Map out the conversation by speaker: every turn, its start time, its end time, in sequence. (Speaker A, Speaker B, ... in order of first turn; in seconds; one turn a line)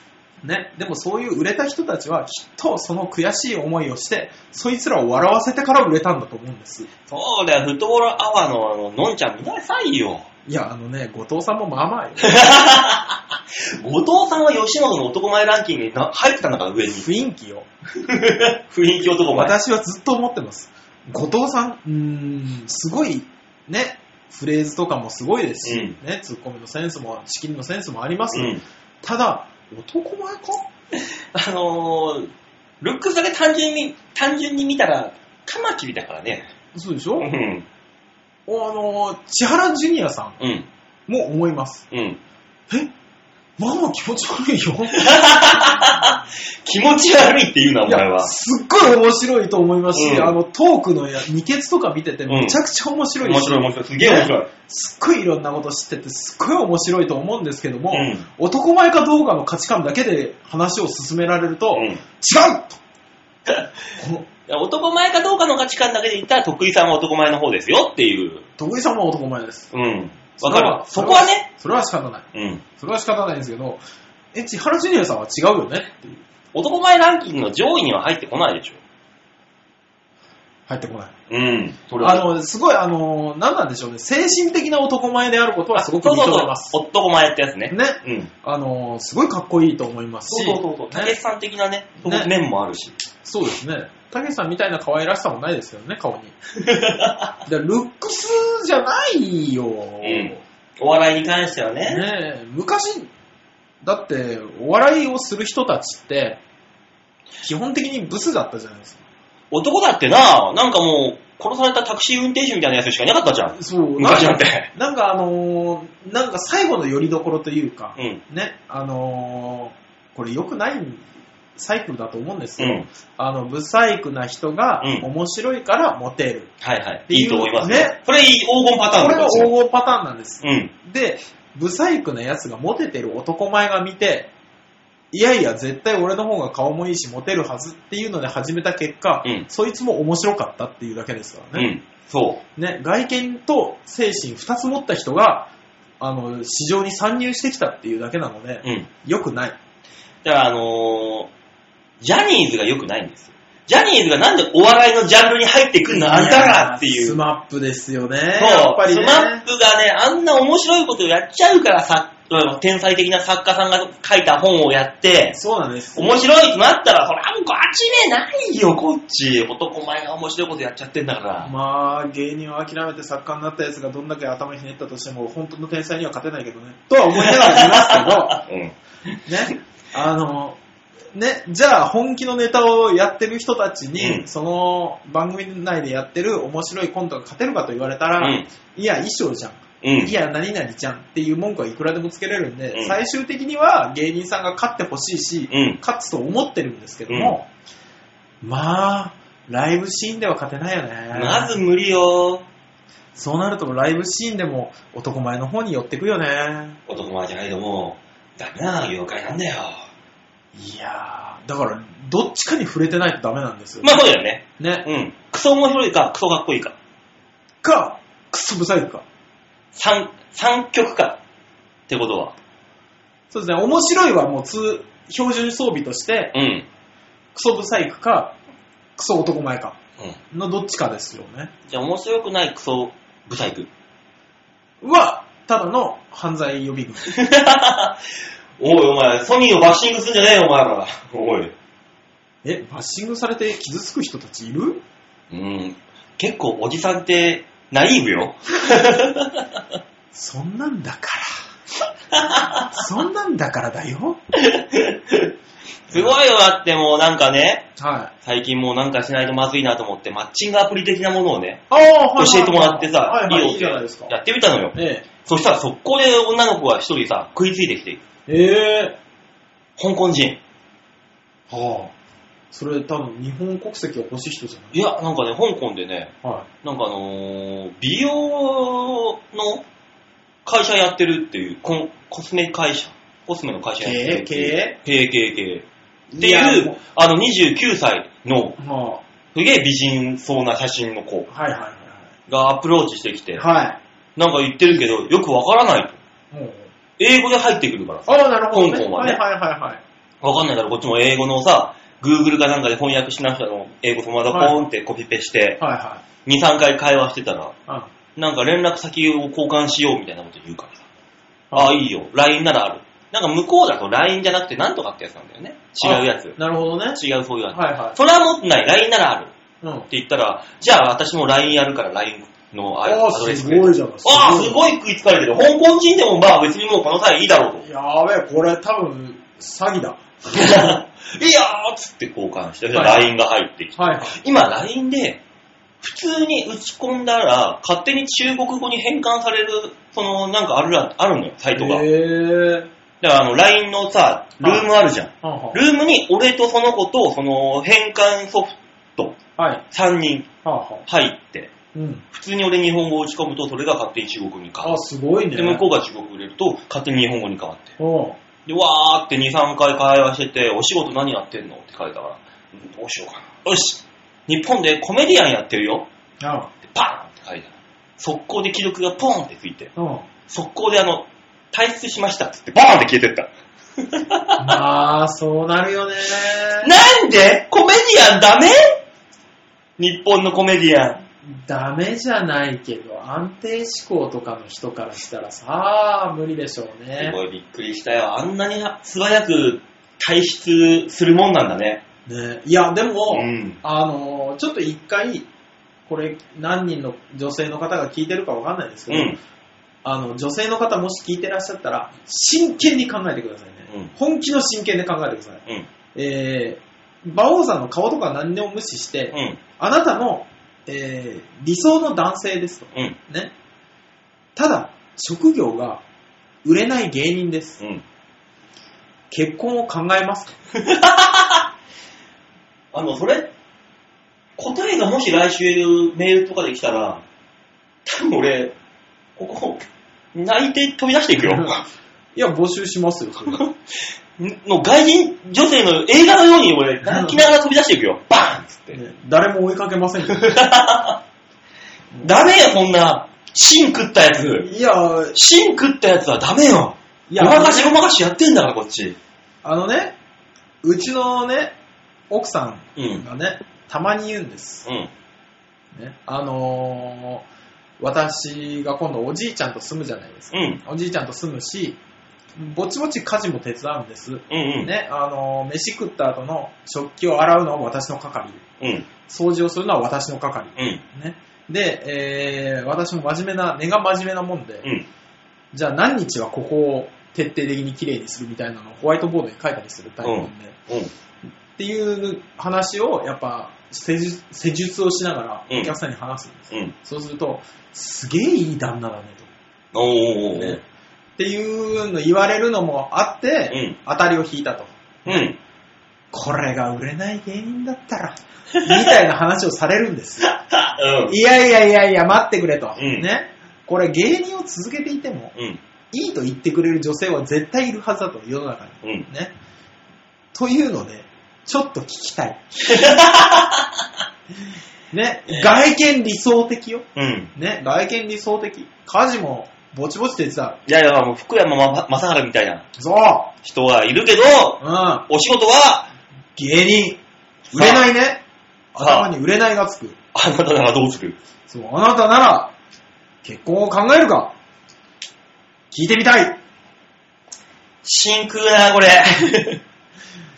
Speaker A: 0.4-6.9
Speaker B: 7.1-10.2
Speaker A: 10.4-12.5
Speaker B: 12.2-17.1
Speaker A: 16.9-17.7
Speaker B: 18.0-19.5
Speaker A: 19.3-30.7
Speaker B: 25.6-25.9
Speaker B: 28.3-28.6
Speaker B: 31.3-32.3
Speaker B: 32.8-36.5
Speaker A: 36.7-37.3
Speaker B: 37.2-37.6
Speaker A: 38.5-40.4
Speaker B: 40.4-40.7
Speaker A: 41.1-41.8
Speaker B: 41.9-42.2
Speaker A: 43.6-45.3
Speaker B: 44.9-48.3
Speaker A: 47.8-62.8
Speaker B: 49.9-50.3
Speaker B: 52.3-52.6
Speaker B: 53.2-54.5
Speaker B: 57.9-58.2
Speaker B: 61.7-62.0
Speaker A: 64.0-64.2
Speaker B: 64.5-68.5
Speaker A: 68.6-69.7
Speaker B: 69.7-71.5
Speaker A: 70.4-73.8
Speaker B: 72.3-72.6
Speaker A: 74.3-76.2
Speaker B: 76.5-78.8
Speaker A: 80.7-81.1
Speaker B: 81.3-82.3
Speaker A: 82.0-86.7
Speaker B: 85.8-88.3
Speaker A: 87.7-91.2
Speaker B: 90.3-93.0
Speaker A: 92.0-92.3
Speaker A: 93.2-96.3
Speaker B: 96.6-97.4
Speaker A: 97.5-100.4
Speaker B: 100.0-102.0
Speaker A: 101.9-103.1
Speaker A: 103.8-106.4
Speaker A: 107.4-109.0
Speaker B: 109.5-114.7
Speaker A: 113.5-126.5
Speaker B: 122.6-122.9
Speaker B: 124.8-125.1
Speaker B: 126.6-129.5
Speaker A: 127.1-128.0
Speaker A: 128.9-134.3
Speaker B: 130.4-130.7
Speaker A: 135.1-141.7
Speaker B: 141.5-142.4
Speaker A: 142.6-149.6
Speaker B: 150.2-151.3
Speaker B: 152.0-157.2
Speaker A: 155.9-159.4
Speaker B: 158.4-165.4
Speaker A: 165.3-166.2
Speaker B: 165.9-171.5
Speaker A: 171.4-178.4
Speaker B: 177.1-179.2
Speaker A: 179.2-180.6
Speaker A: 181.1-197.5
Speaker B: 184.0-184.2
Speaker B: 188.2-188.5
Speaker B: 189.8-190.1
Speaker B: 195.5-195.8
Speaker B: 197.1-197.3
Speaker A: 198.4-201.5
Speaker B: 201.1-202.4
Speaker A: 203.2-206.8
Speaker B: 206.9-209.8
Speaker A: 210.5-213.9
Speaker B: 213.8-216.8
Speaker A: 214.6-214.8
Speaker A: 217.6-219.0
Speaker B: 219.7-221.2
Speaker B: 221.9-222.3
Speaker A: 223.3-226.3
Speaker B: 226.3-226.7
Speaker A: 227.3-228.3
Speaker A: 228.9-229.8
Speaker A: 230.3-231.5
Speaker B: 231.7-233.7
Speaker A: 234.8-237.1
Speaker B: 237.0-238.0
Speaker B: 238.6-241.5
Speaker A: 242.4-244.8
Speaker B: 245.3-249.4
Speaker A: 250.1-251.4
Speaker B: 252.1-252.8
Speaker A: 252.7-254.2
Speaker B: 254.3-255.3
Speaker B: 255.9-257.7
Speaker A: 255.9-256.2
Speaker A: 257.8-258.1
Speaker B: 258.2-261.6
Speaker A: 261.7-264.1
Speaker B: 262.2-268.0
Speaker A: 264.7-265.1
Speaker A: 268.3-269.0
Speaker B: 269.8-270.4
Speaker A: 271.5-271.9
Speaker A: 272.5-274.7
Speaker B: 274.7-276.1
Speaker B: 276.6-279.6
Speaker B: 280.4-285.6
Speaker A: 283.8-284.8
Speaker A: 286.1-286.8
Speaker B: 286.2-288.6
Speaker A: 288.6-289.0
Speaker B: 289.3-291.3
Speaker A: 291.3-292.1
Speaker B: 292.3-293.4
Speaker A: 293.4-293.8
Speaker B: 294.1-296.0
Speaker A: 296.3-296.7
Speaker B: 297.0-299.2
Speaker A: 298.1-299.8
Speaker B: 300.2-305.6
Speaker A: 304.3-304.6
Speaker A: 305.6-306.0
Speaker B: 306.2-307.5
Speaker B: 308.1-310.9
Speaker B: 311.5-316.4
Speaker A: 315.8-317.0
Speaker B: 316.9-319.3
Speaker A: 317.5-318.0
Speaker A: 319.6-319.9
Speaker B: 319.9-327.6
Speaker A: 322.8-324.6
Speaker A: 327.6-330.4
Speaker B: 330.3-335.2
Speaker A: 332.7-333.1
Speaker A: 333.8-334.2
Speaker B: 335.8-341.8
Speaker A: 341.6-342.7
Speaker B: 343.0-349.2
Speaker A: 344.4-344.7
Speaker A: 345.2-345.6
Speaker A: 349.4-349.6
Speaker B: 349.7-350.3
Speaker A: 350.4-350.8
Speaker B: 350.9-351.5
Speaker A: 351.7-352.0
Speaker B: 352.1-354.8
Speaker A: 354.6-355.6
Speaker B: 355.4-357.8
Speaker A: 357.8-358.2
Speaker B: 358.4-365.9
Speaker A: 366.2-366.5
Speaker B: 366.6-369.7
Speaker A: 369.8-370.1
Speaker B: 370.3-374.5
Speaker A: 374.4-376.7
Speaker B: 376.6-378.6
Speaker B: 379.8-381.0
Speaker A: 381.2-387.2
Speaker B: 387.0-391.8
Speaker A: 392.1-395.3
Speaker B: 393.1-393.6
Speaker A: 395.9-399.2
Speaker B: 398.9-399.2
Speaker A: 399.8-405.4
Speaker B: 403.7-403.9
Speaker A: 405.9-413.3
Speaker B: 409.1-409.4
Speaker A: 414.4-415.8
Speaker A: 416.4-417.6
Speaker A: 419.1-420.4
Speaker B: 420.5-421.4
Speaker B: 422.7-423.3
Speaker B: 424.4-427.0
Speaker B: 427.9-428.5
Speaker B: 429.2-431.6
Speaker A: 431.2-431.5
Speaker A: 432.1-433.4
Speaker B: 433.3-433.5
Speaker B: 434.2-438.8
Speaker A: 436.8-437.2
Speaker A: 438.7-440.3
Speaker B: 440.1-441.0
Speaker B: 442.0-444.5
Speaker A: 444.4-445.1
Speaker B: 445.1-449.0
Speaker A: 447.1-447.7
Speaker A: 449.4-449.9
Speaker A: 450.6-451.6
Speaker A: 452.1-454.6
Speaker B: 452.8-453.0
Speaker B: 454.6-454.9
Speaker A: 455.7-457.2
Speaker A: 457.8-461.8
Speaker B: 460.3-460.6
Speaker A: 462.4-468.4
Speaker B: 464.3-464.7
Speaker B: 468.6-468.9
Speaker A: 469.1-474.7
Speaker B: 470.6-470.8
Speaker A: 475.5-480.6
Speaker B: 480.0-480.9
Speaker A: 481.6-489.3
Speaker B: 485.5-485.7
Speaker B: 489.7-490.6
Speaker A: 490.3-490.6
Speaker A: 491.2-495.3
Speaker B: 493.5-493.8
Speaker B: 495.1-495.4
Speaker A: 496.1-500.3
Speaker B: 498.5-498.8
Speaker B: 500.2-501.1
Speaker A: 501.1-505.3
Speaker B: 502.8-503.1
Speaker B: 505.3-505.6
Speaker A: 505.9-509.3
Speaker A: 510.3-512.5
Speaker B: 512.6-513.8
Speaker A: 514.9-520.6
Speaker B: 515.3-515.6
Speaker B: 517.0-517.3
Speaker B: 520.6-522.6
Speaker A: 522.8-523.3
Speaker B: 523.4-525.9
Speaker A: 524.6-525.0
Speaker A: 526.4-527.0
Speaker B: 527.5-527.9
Speaker A: 527.5-528.2
Speaker A: 528.7-530.0
Speaker B: 528.8-529.1
Speaker B: 530.1-531.2
Speaker A: 531.5-532.5
Speaker A: 533.2-534.3
Speaker A: 535.7-536.4
Speaker B: 537.8-539.6